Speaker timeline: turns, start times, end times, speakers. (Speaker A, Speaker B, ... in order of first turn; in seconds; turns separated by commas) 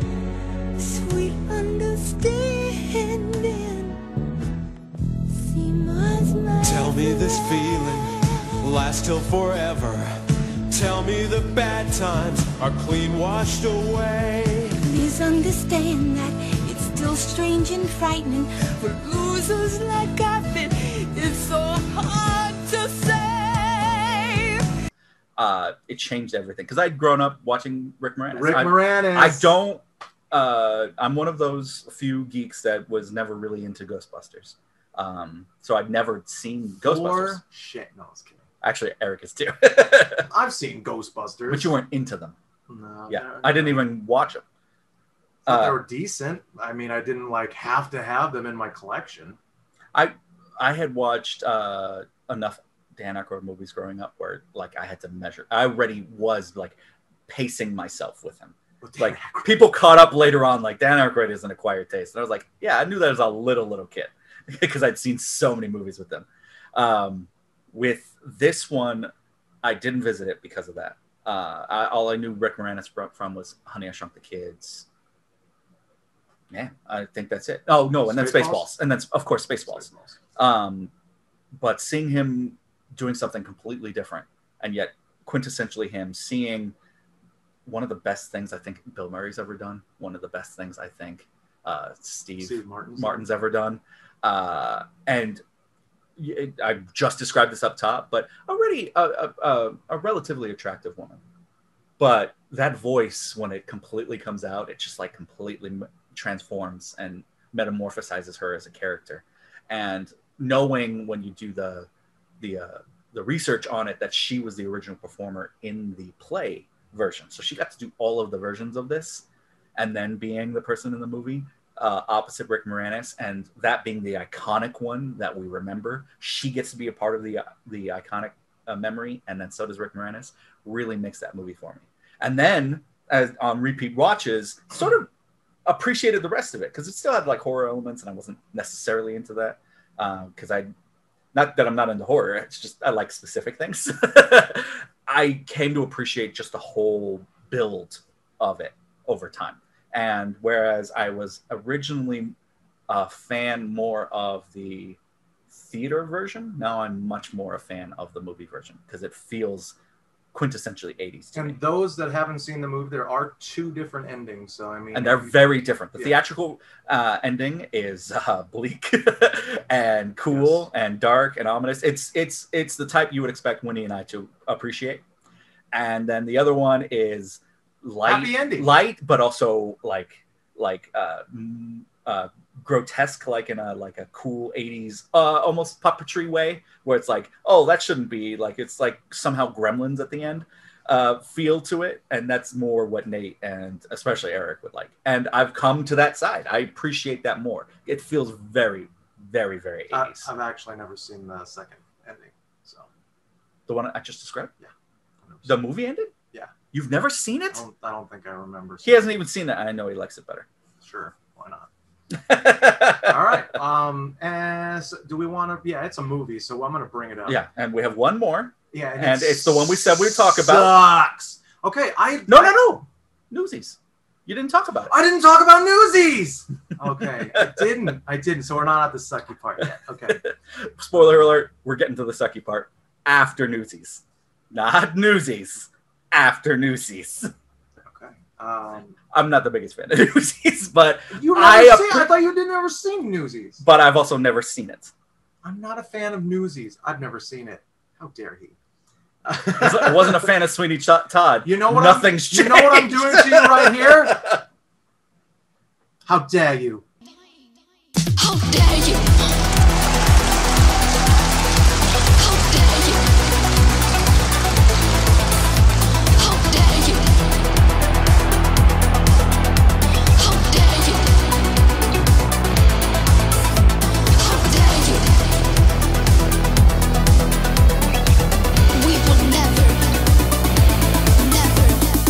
Speaker A: 0.8-3.9, Speaker A: 5.4-7.5, Speaker B: 6.6-14.8, Speaker A: 14.9-18.5, Speaker A: 19.3-20.6, Speaker A: 21.3-23.6, Speaker C: 25.4-37.4, Speaker D: 28.3-29.5, Speaker D: 36.8-38.5, Speaker C: 38.6-40.2, Speaker D: 40.3-41.7, Speaker C: 41.5-42.4, Speaker D: 42.7-43.8, Speaker C: 43.1-44.4, Speaker C: 45.5-45.8, Speaker D: 45.5-49.4, Speaker C: 49.9-69.1, Speaker D: 58.8-59.5, Speaker C: 69.6-74.9, Speaker C: 76.5-80.9, Speaker D: 78.1-78.7, Speaker D: 79.7-80.2, Speaker C: 81.6-86.8, Speaker C: 87.7-95.4, Speaker D: 92.4-93.2, Speaker C: 96.2-101.2, Speaker C: 102.0-111.9, Speaker C: 112.4-135.1, Speaker C: 135.7-140.7, Speaker C: 141.3-152.3, Speaker C: 152.9-155.0, Speaker C: 155.5-159.8, Speaker C: 160.3-161.6, Speaker D: 161.3-165.4, Speaker C: 164.9-175.0, Speaker D: 170.3-170.7, Speaker C: 175.7-200.3, Speaker D: 178.1-178.7, Speaker D: 199.9-202.9, Speaker C: 203.7-204.5, Speaker D: 205.2-205.6, Speaker C: 205.4-206.1, Speaker C: 206.7-207.6, Speaker D: 207.5-209.2, Speaker C: 208.8-210.5, Speaker D: 210.8-211.7, Speaker C: 212.2-213.4, Speaker D: 213.1-217.4, Speaker C: 217.3-220.8, Speaker D: 218.7-222.8, Speaker C: 222.3-225.0, Speaker D: 224.9-230.2, Speaker C: 227.2-227.7, Speaker C: 229.6-237.3, Speaker D: 237.8-239.0, Speaker C: 239.1-242.1, Speaker D: 241.1-243.6, Speaker C: 243.6-244.9, Speaker D: 245.4-248.6, Speaker D: 249.3-250.3, Speaker C: 249.6-254.4, Speaker D: 251.4-254.2, Speaker D: 256.1-256.9, Speaker A: 278.9-279.7